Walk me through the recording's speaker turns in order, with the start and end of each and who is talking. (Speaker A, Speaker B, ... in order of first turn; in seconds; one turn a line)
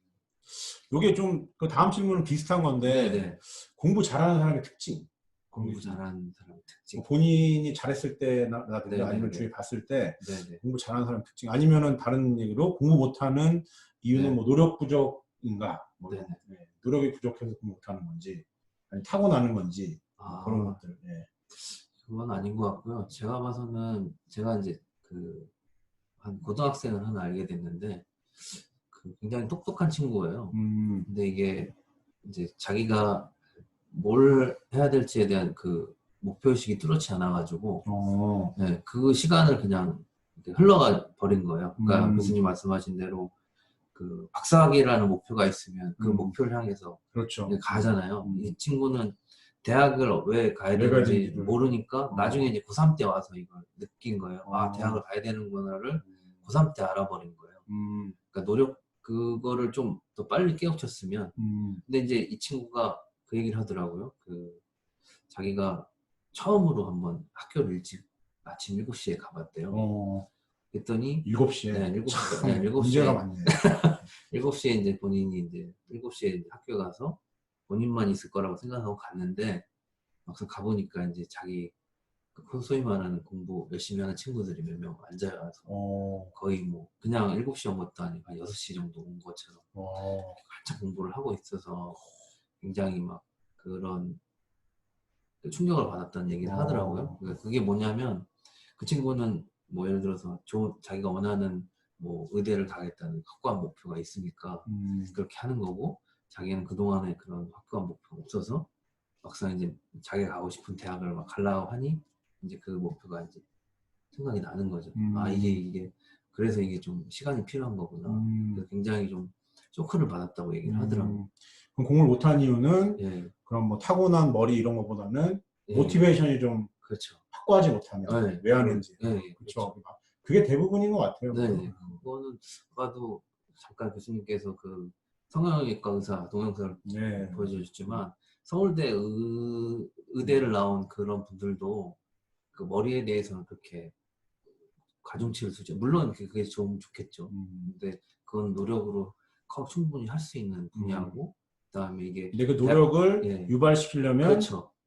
Speaker A: 0.5-6.0
Speaker B: 2.8-3.4
Speaker B: 5.5-7.0
Speaker A: 6.9-21.3
Speaker B: 8.8-9.5
Speaker B: 10.2-10.6
Speaker B: 14.1-14.4
Speaker B: 16.1-16.4
Speaker B: 20.2-20.8
Speaker B: 21.5-25.5
Speaker B: 26.2-33.4
Speaker A: 30.5-31.1
Speaker B: 33.9-37.9
Speaker A: 37.8-38.5
Speaker B: 38.5-43.3
Speaker A: 41.8-42.4
Speaker B: 43.9-57.6
Speaker A: 46.0-46.4
Speaker A: 47.1-48.5
Speaker A: 50.7-52.5
Speaker A: 54.4-55.0
Speaker A: 56.0-56.4
Speaker A: 57.7-58.2
Speaker B: 58.3-64.6
Speaker A: 61.4-61.8
Speaker B: 65.3-69.9
Speaker A: 69.7-70.3
Speaker B: 70.7-79.7
Speaker A: 71.2-73.8
Speaker B: 80.2-81.7
Speaker B: 82.3-85.7
Speaker A: 85.7-86.3
Speaker B: 86.3-89.7
Speaker A: 89.7-90.4
Speaker B: 90.4-92.0
Speaker B: 92.6-94.2
Speaker B: 95.4-108.7
Speaker A: 96.4-97.3
Speaker A: 104.7-105.2
Speaker B: 109.2-113.4
Speaker B: 114.1-121.2
Speaker A: 114.9-115.6
Speaker A: 118.0-118.7
Speaker A: 120.6-126.7
Speaker B: 123.0-123.3
Speaker B: 125.7-126.2
Speaker B: 126.8-127.2
Speaker A: 127.3-132.0
Speaker B: 128.1-129.7
Speaker B: 131.3-142.0
Speaker A: 136.8-138.0
Speaker B: 142.5-143.9
Speaker B: 145.0-153.6
Speaker A: 147.3-147.7
Speaker A: 150.7-151.2
Speaker A: 152.3-154.5
Speaker B: 154.2-154.7